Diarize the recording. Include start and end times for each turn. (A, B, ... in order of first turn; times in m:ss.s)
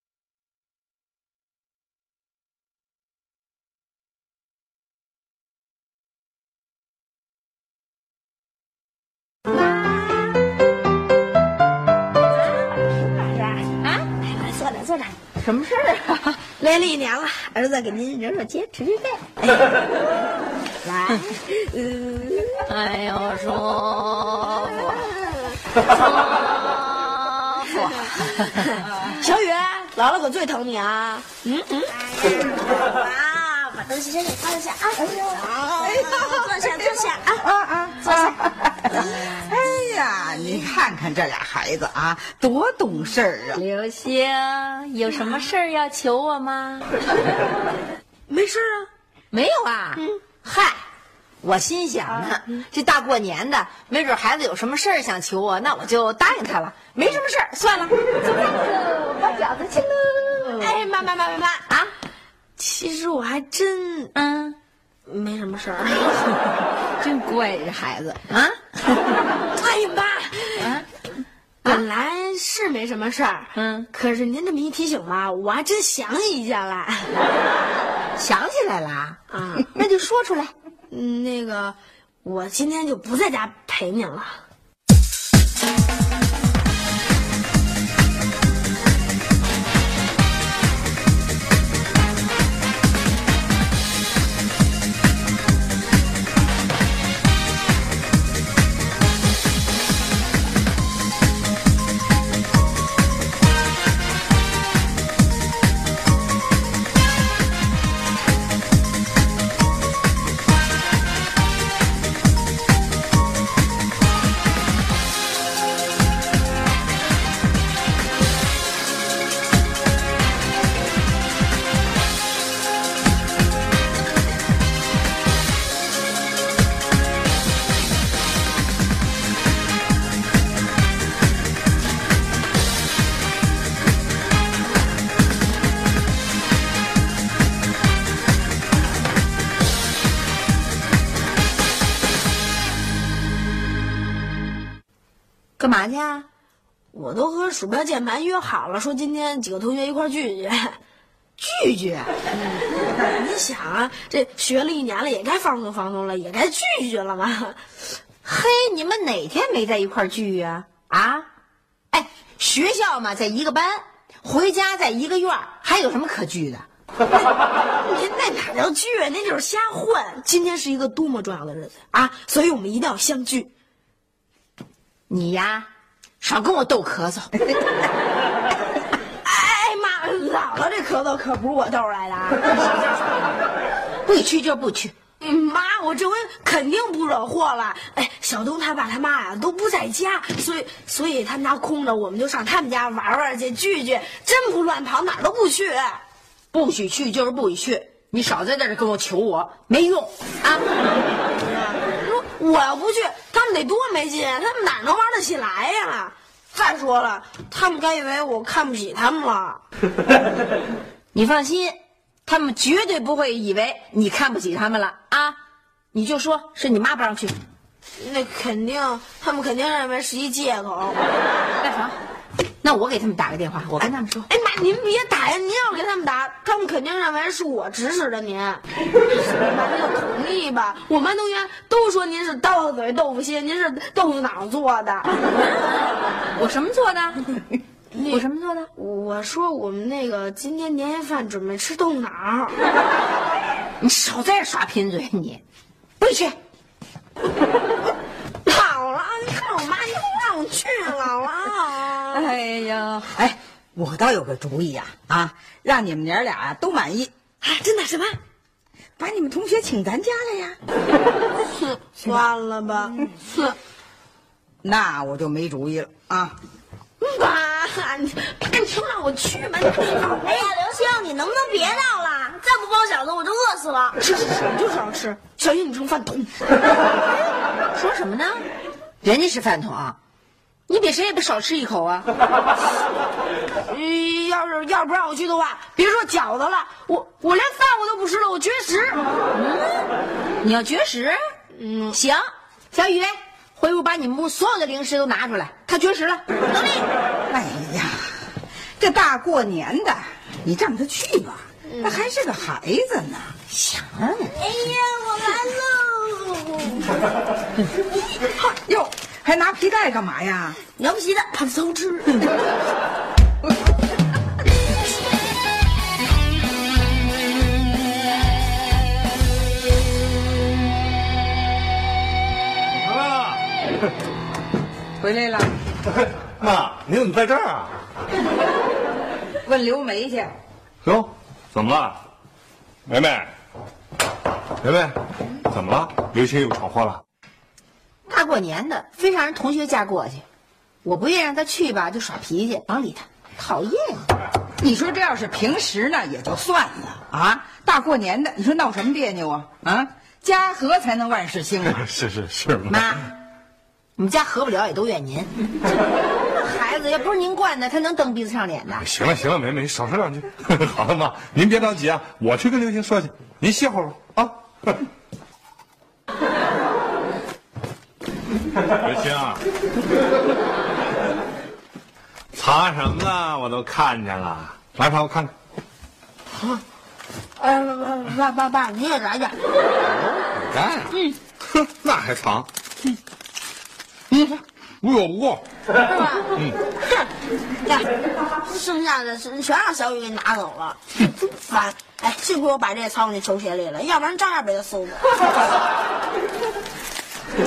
0:12.9-0:13.7 A
0:13.8-0:14.1 B
0:14.2-0:15.2 A
0:15.4-0:16.4 B
0:16.6-0:19.8 A
0:20.8-0:22.7 A
0:22.7-0:25.1 B
0:26.4-0:28.6 B
0:28.5-0:37.4 A
0:35.0-0:43.6 C
0:39.0-0:39.5 B
0:43.5-0:46.9 B
0:48.3-0:48.9 A
0:49.3-0:50.8 B
0:51.4-1:00.8 B
1:00.6-1:01.6 A
1:02.6-1:04.1 A
1:04.1-1:04.6 B
1:05.0-1:06.2 A
1:07.0-1:08.7 B
1:09.5-1:10.7 A
1:10.6-1:10.8 B
1:11.6-1:17.1 A
1:13.5-1:13.9 B
1:18.2-1:20.5 B
1:19.3-1:19.7 A
1:20.9-1:24.4 A
2:25.6-2:26.3 B
2:26.9-2:30.8 A
2:31.4-2:32.1 B
2:33.0-2:37.6 A
2:38.2-2:41.3 B
2:41.9-2:46.6 B
2:47.8-2:53.5 A
2:55.1-2:55.7 B
2:56.2-2:57.3 B
2:59.2-3:03.3 A
3:04.0-3:04.9 B
3:05.2-3:16.0 A
3:16.5-3:20.6 B
3:21.4-3:29.6 A
3:31.1-3:35.4 B
3:35.9-3:37.4 B
3:38.0-3:41.0 A
3:41.6-3:42.0 B
3:42.6-3:44.3 B
3:44.3-3:55.1 A
3:55.3-3:58.7 B
3:57.9-3:58.2 A
3:58.8-4:02.6 A
4:03.8-4:05.4 B
4:06.0-4:06.4 C
4:08.4-4:12.3 A
4:12.1-4:13.2 B
4:13.1-4:17.1 C
4:17.4-4:18.2 A
4:19.0-4:20.6 C
4:21.4-4:23.6 A
4:24.6-4:26.4 C
4:27.0-4:30.5 A
4:30.4-4:33.8 D
4:33.5-4:36.3 A
4:37.7-4:38.4 B
4:39.0-4:40.0 B
4:40.7-4:42.1 B
4:43.7-4:49.0 A
4:49.3-4:49.9 B
4:50.4-4:51.2 B
4:51.5-4:52.0 A
4:51.9-4:56.3 B
4:57.3-4:58.2 C
4:58.8-5:03.4 C
5:01.7-5:02.1 A
5:03.5-5:04.4 B
5:04.4-5:06.9 A
5:08.4-5:10.6 C
5:10.8-5:12.3 A
5:22.7-5:23.4 E
5:25.0-5:25.6 C
5:26.0-5:27.7 E
5:29.4-5:30.3 C
5:30.8-5:32.0 E
5:32.9-5:33.3 E
5:34.6-5:35.0 E
5:35.5-5:37.0 E
5:38.1-5:40.2 B
5:40.8-5:44.1 B
5:44.6-5:51.8 C
5:51.7-5:53.0 E
5:52.7-5:53.1 B
5:54.0-5:55.3 B
5:56.3-5:58.9 B
5:58.8-6:04.8 E
6:08.8-6:09.4 E
6:12.3-6:15.3 E
6:16.3-6:16.6 A
6:17.4-6:19.4 A
6:19.8-6:22.5 E
6:24.8-6:25.4 E
6:25.8-6:26.3 A
6:28.4-6:35.0 A